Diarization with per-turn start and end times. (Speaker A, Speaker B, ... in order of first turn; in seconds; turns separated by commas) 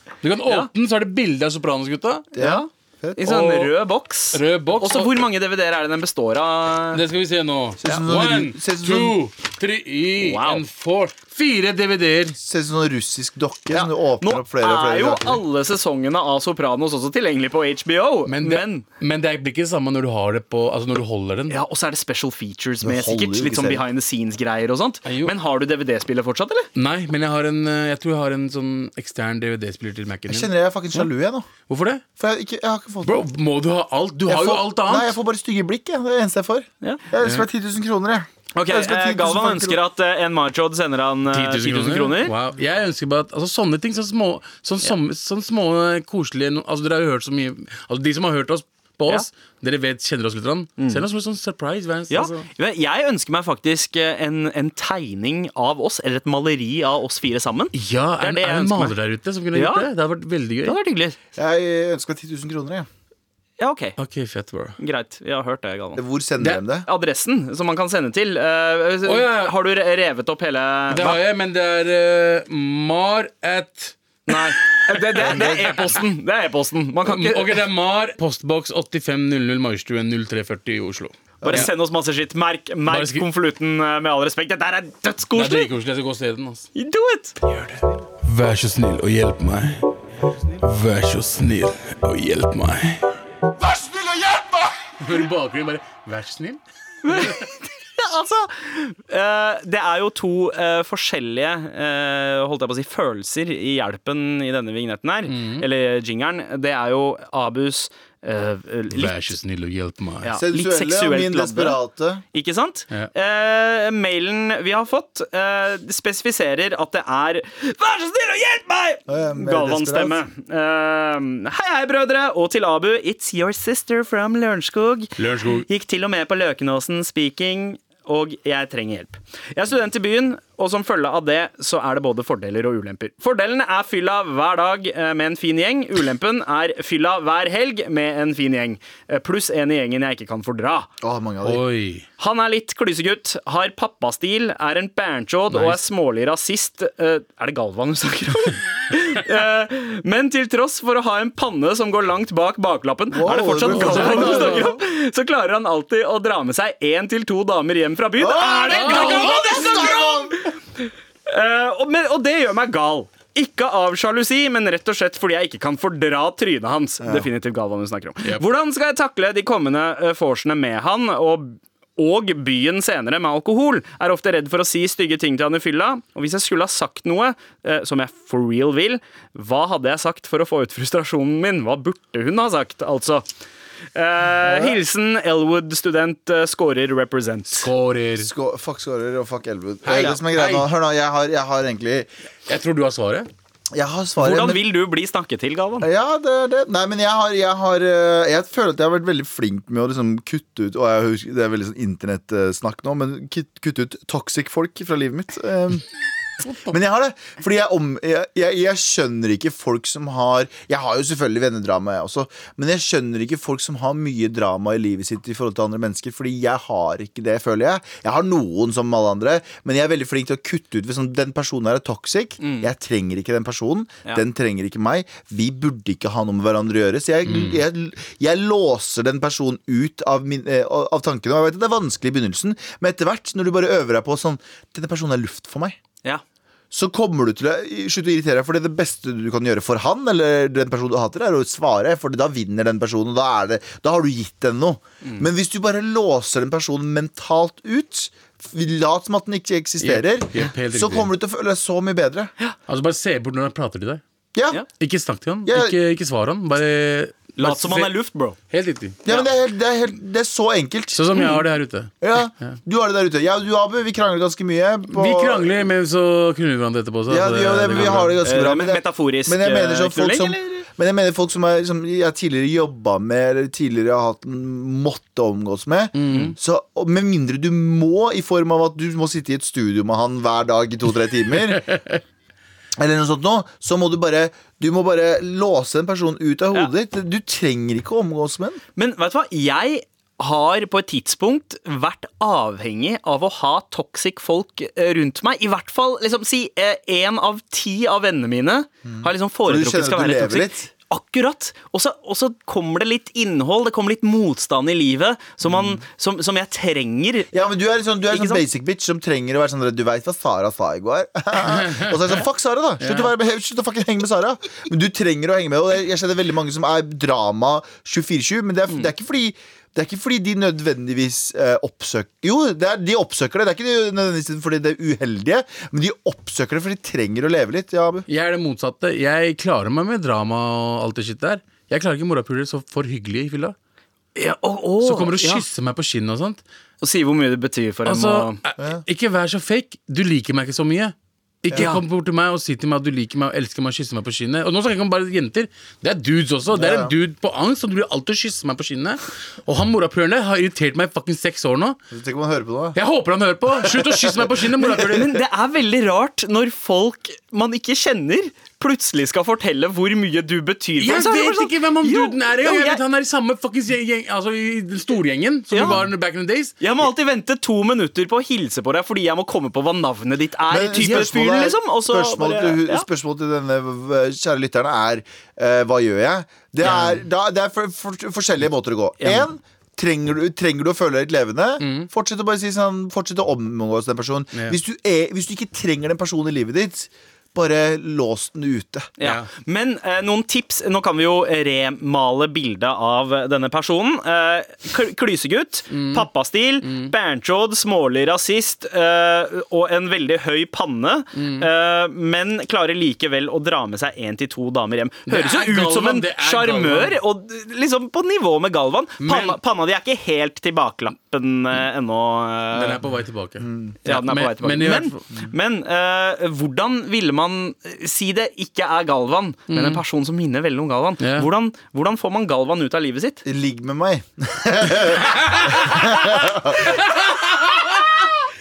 Speaker A: 0.2-2.3, Speaker B: 2.3-3.5, Speaker C: 2.4-7.0, Speaker A: 3.3-3.7, Speaker A: 4.3-5.3, Speaker A: 6.9-12.4, Speaker B: 7.8-9.2, Speaker C: 10.2-10.6, Speaker B: 12.4-15.4, Speaker C: 13.7-18.9, Speaker A: 18.3-21.6, Speaker C: 21.5-26.7, Speaker B: 22.8-23.8, Speaker A: 25.1-25.3, Speaker A: 26.8-31.1, Speaker B: 30.3-31.5, Speaker A: 31.7-32.0, Speaker B: 32.2-33.3, Speaker A: 33.0-35.2, Speaker B: 34.3-39.8, Speaker A: 37.2-37.5, Speaker C: 38.5-42.3, Speaker A: 41.3-52.5, Speaker C: 50.8-51.0, Speaker C: 52.1-58.9, Speaker A: 57.7-60.8, Speaker C: 59.5-59.9, Speaker C: 60.6-61.2, Speaker B: 61.4-62.9, Speaker C: 63.6-64.0, Speaker A: 64.0-64.8, Speaker C: 64.8-66.0, Speaker B: 66.0-66.9, Speaker C: 66.8-71.2, Speaker A: 69.1-69.5, Speaker A: 70.9-76.0, Speaker C: 74.3-77.6, Speaker A: 77.0-81.7, Speaker B: 81.4-81.7, Speaker C: 81.5-85.7, Speaker A: 82.9-83.2, Speaker A: 85.3-86.7, Speaker C: 86.8-87.4, Speaker A: 87.4-96.6, Speaker C: 97.0-109.4, Speaker A: 105.3-105.7, Speaker A: 108.9-110.3, Speaker C: 110.2-111.8, Speaker B: 110.4-112.2, Speaker C: 112.3-140.9, Speaker B: 119.1-120.2, Speaker A: 125.2-125.7, Speaker B: 141.0-141.6, Speaker A: 141.4-142.1, Speaker C: 142.2-183.3, Speaker A: 145.5-145.8, Speaker B: 153.1-154.7, Speaker A: 153.4-154.8, Speaker B: 158.2-160.4, Speaker A: 158.7-159.9, Speaker B: 167.0-167.3, Speaker C: 183.9-187.7, Speaker A: 184.4-184.8, Speaker A: 187.5-188.3, Speaker B: 188.2-192.1, Speaker A: 189.8-190.7, Speaker A: 192.5-193.3, Speaker B: 193.7-194.6, Speaker C: 194.2-195.9, Speaker B: 195.8-205.9, Speaker B: 206.7-235.8, Speaker C: 222.4-222.7, Speaker A: 227.3-227.6, Speaker B: 236.7-252.3, Speaker A: 249.8-251.1, Speaker A: 252.7-254.0, Speaker B: 254.3-254.6, Speaker A: 254.7-257.9, Speaker B: 255.4-255.8, Speaker C: 257.4-258.4, Speaker A: 258.5-259.0, Speaker B: 259.1-261.2, Speaker A: 260.9-262.6, Speaker C: 261.1-261.4, Speaker B: 262.0-265.5, Speaker A: 264.9-268.2, Speaker B: 267.1-281.8, Speaker C: 268.2-270.6, Speaker A: 276.0-276.4, Speaker B: 282.8-288.6, Speaker C: 288.8-307.3, Speaker B: 298.9-300.7, Speaker B: 305.5-305.7, Speaker B: 307.3-328.1, Speaker C: 308.1-308.4, Speaker A: 311.4-312.2, Speaker A: 312.8-313.1, Speaker A: 328.1-333.6, Speaker C: 334.2-335.4, Speaker A: 334.8-336.4, Speaker C: 336.8-338.4, Speaker A: 337.9-351.8, Speaker C: 341.5-341.8, Speaker B: 346.5-346.9, Speaker B: 351.9-352.8, Speaker A: 352.8-355.2, Speaker B: 353.6-354.3, Speaker C: 354.6-362.8, Speaker A: 360.8-366.6, Speaker C: 365.5-365.8, Speaker C: 366.6-372.9, Speaker B: 370.5-388.9, Speaker A: 370.8-371.1, Speaker A: 376.6-377.0, Speaker A: 381.6-381.9, Speaker A: 384.3-384.6, Speaker C: 389.0-412.8, Speaker A: 389.0-389.3, Speaker A: 395.7-396.1, Speaker A: 396.6-396.9, Speaker A: 401.1-401.5, Speaker A: 405.1-407.0, Speaker A: 409.0-409.4, Speaker A: 412.5-415.1, Speaker B: 413.4-413.8, Speaker C: 413.8-423.2, Speaker A: 419.5-419.8, Speaker A: 421.0-421.3, Speaker B: 423.2-426.9, Speaker A: 425.1-425.8, Speaker A: 426.6-428.1